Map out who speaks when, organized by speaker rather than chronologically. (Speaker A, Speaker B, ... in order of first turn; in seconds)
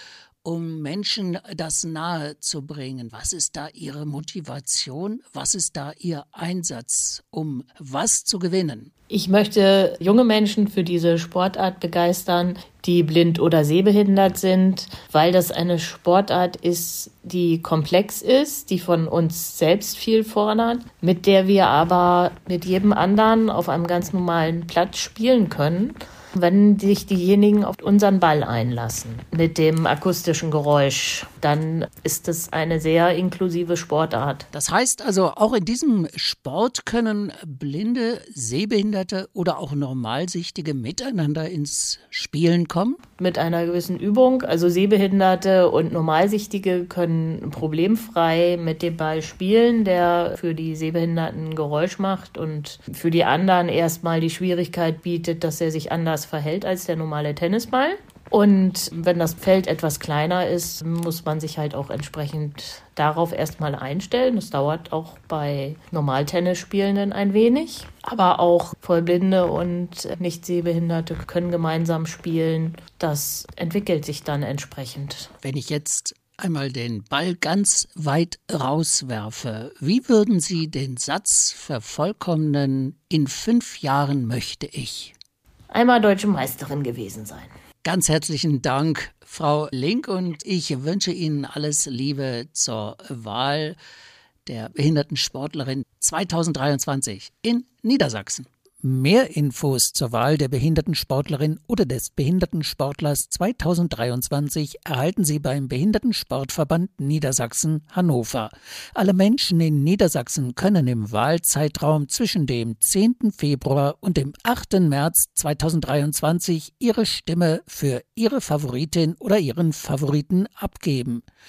Speaker A: 0.4-8.9, 34.5-43.0, 75.4-85.1, 87.8-93.8, 94.5-121.2
Speaker B: 9.1-34.5, 43.2-75.3, 85.7-87.5